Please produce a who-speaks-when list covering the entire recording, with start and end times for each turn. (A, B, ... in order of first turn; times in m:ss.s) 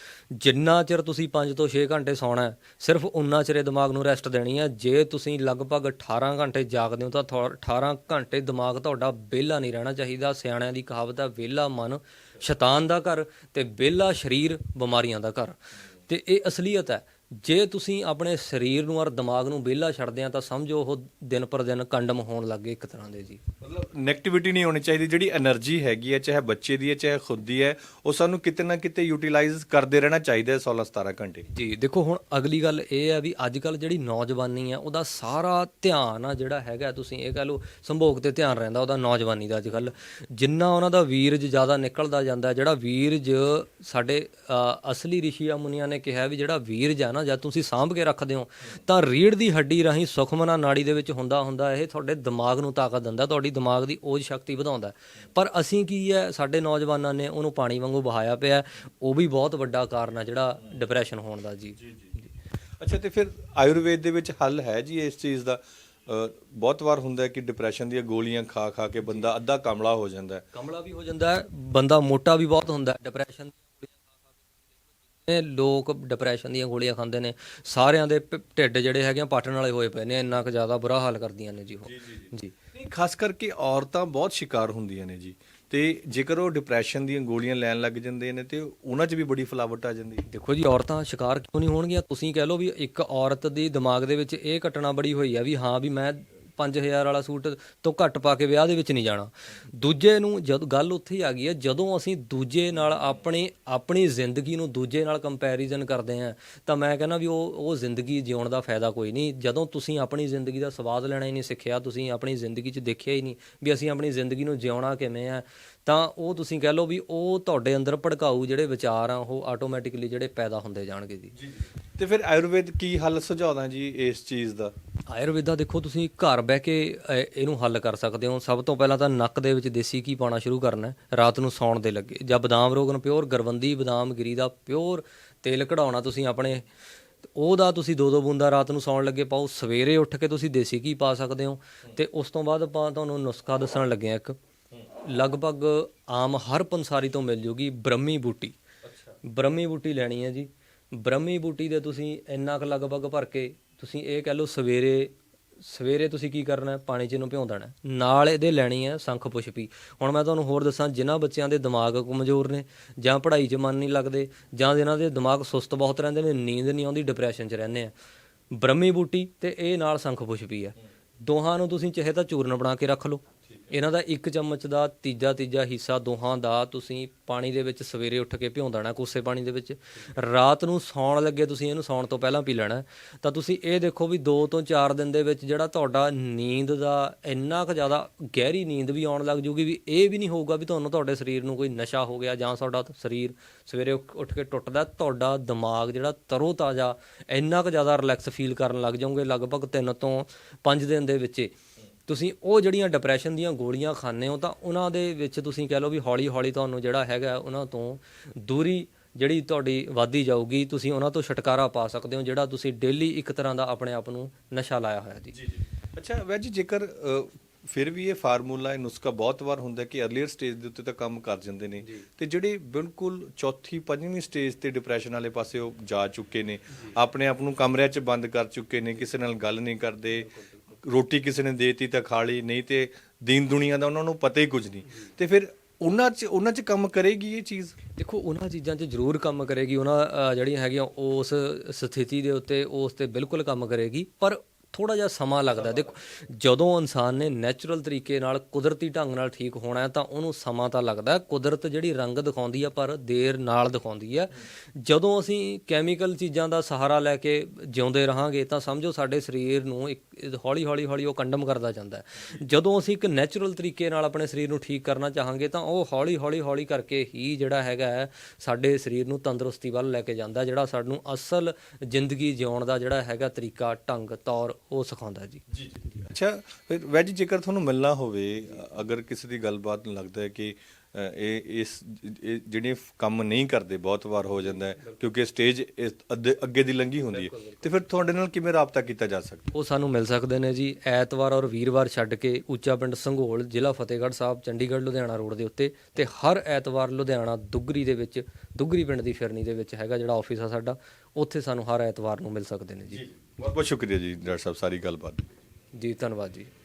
0:00.3-0:23.4 A
0:23.6-0:31.5 B
0:31.5-1:02.2 A
1:01.8-1:02.1 B
1:02.8-1:10.4 B
1:10.5-1:14.1 A
1:15.2-1:22.5 A
1:21.8-1:30.2 B
1:30.3-2:01.3 A
2:01.4-2:04.7 B
2:05.1-2:16.6 A
2:17.3-2:24.4 A
2:25.0-2:28.6 A
2:28.8-2:29.2 B
2:29.2-2:47.9 A
2:48.5-3:21.5 A
3:22.1-3:35.4 A
3:35.3-3:57.8 B
3:57.9-4:35.4 A
4:35.5-4:49.5 B
4:47.2-4:47.6 A
4:49.5-5:03.0 A
5:02.9-5:05.3 B
5:05.7-5:06.5 A